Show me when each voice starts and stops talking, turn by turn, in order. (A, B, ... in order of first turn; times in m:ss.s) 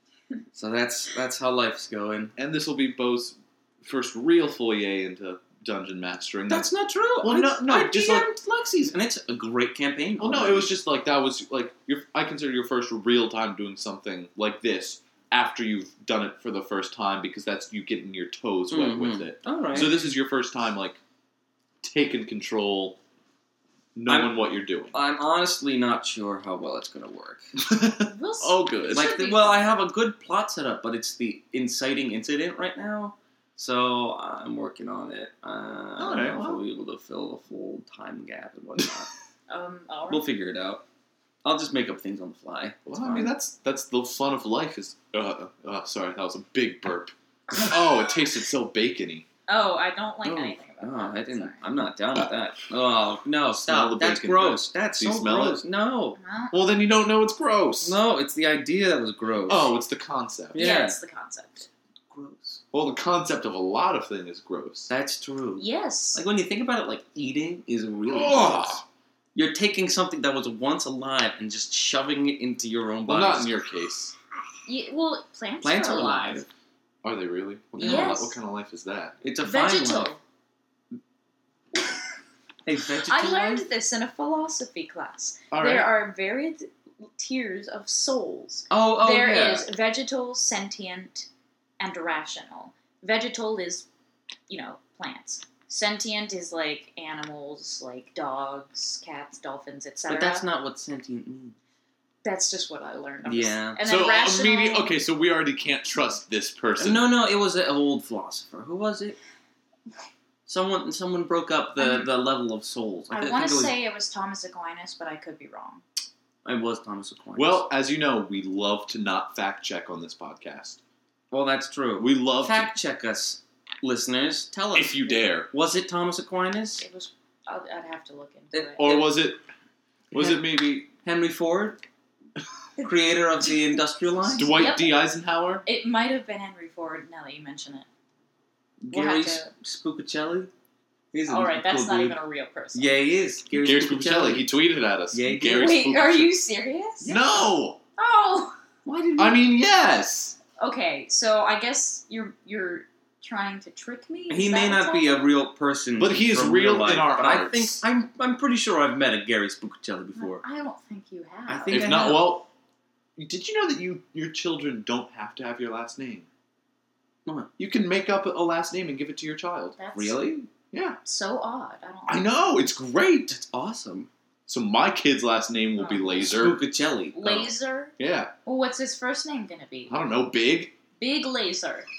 0:00.5-0:02.3 A
0:02.4-0:06.7 B
0:06.5-0:10.7 A
0:07.2-0:08.3 B
0:10.2-0:21.0 B
0:18.7-0:20.0 A
0:21.8-0:23.0 B
0:24.0-0:24.9 B
0:24.1-0:27.4 A
0:27.6-0:29.1 B
0:28.1-0:29.8 C
0:28.9-0:39.1 A
0:36.0-0:36.6 B
0:39.5-0:40.2 C
0:40.1-0:40.8 A
0:41.4-0:43.3 A
0:42.9-0:47.1 B
0:47.7-0:49.2 B
0:49.5-0:51.6 C
0:50.2-0:56.2 A
0:53.5-0:55.6 B
0:56.2-0:56.6 C
0:56.5-0:58.0 B
0:57.8-0:59.7 A
0:59.5-1:00.6 B
1:00.5-1:01.0 A
1:00.6-1:01.7 C
1:02.1-1:02.6 A
1:02.7-1:04.9 B
1:04.9-1:08.8 A
1:05.6-1:06.2 C
1:08.1-1:08.8 B
1:09.3-1:13.5 A
1:13.1-1:14.1 B
1:14.6-1:16.4 C
1:15.6-1:16.5 A
1:17.0-1:19.1 B
1:17.7-1:18.3 A
1:17.8-1:18.3 C
1:19.2-1:20.1 A
1:19.4-1:20.2 C
1:22.6-1:23.6 A
1:23.0-1:31.3 C
1:25.5-1:25.9 B
1:28.7-1:29.7 A
1:31.8-1:33.9 C
1:34.5-1:40.4 C
1:40.1-1:41.6 A
1:42.2-1:45.0 C
1:43.2-1:43.8 A
1:43.8-1:47.1 B
1:46.8-1:49.2 A
1:50.4-1:53.8 A
1:51.8-1:52.1 C
1:53.1-1:55.8 C
1:56.4-1:57.6 A
1:57.4-2:00.8 B
2:01.3-2:06.8 A
2:02.0-2:02.7 B
2:04.7-2:05.5 B
2:06.8-2:08.9 C
2:08.5-2:09.1 A
2:08.8-2:09.4 B
2:10.1-2:10.9 B
2:10.1-2:11.8 A
2:12.8-2:14.6 A
2:14.3-2:15.6 B
2:14.5-2:15.0 C
2:15.6-2:17.9 C
2:18.8-2:20.5 A
2:18.9-2:19.5 C
2:21.1-2:22.2 A
2:21.3-2:23.0 C
2:22.7-2:24.5 A
2:23.5-2:26.3 B
2:25.1-2:25.8 A
2:25.5-2:27.1 C
2:27.0-2:27.5 A
2:27.1-2:27.8 B
2:28.0-2:28.6 C
2:28.8-2:29.4 A
2:29.2-2:30.4 B
2:30.6-2:35.2 C
2:34.3-2:40.4 A
2:36.0-2:37.8 B
2:40.2-2:42.2 C
2:41.5-2:42.4 A
2:41.7-2:42.5 B
2:43.2-2:46.3 B
2:47.6-2:49.8 B
2:49.8-2:50.2 C
2:49.9-2:50.5 A
2:50.7-2:51.0 B
2:51.0-2:52.2 C
2:52.1-2:53.3 B
2:53.3-2:54.1 A
2:54.5-2:56.6 B
2:55.8-2:56.5 C
2:56.2-2:57.5 A
2:57.1-2:57.9 C
2:58.0-2:58.3 B
2:58.4-2:59.9 C
2:59.9-3:00.7 B
3:01.0-3:01.9 C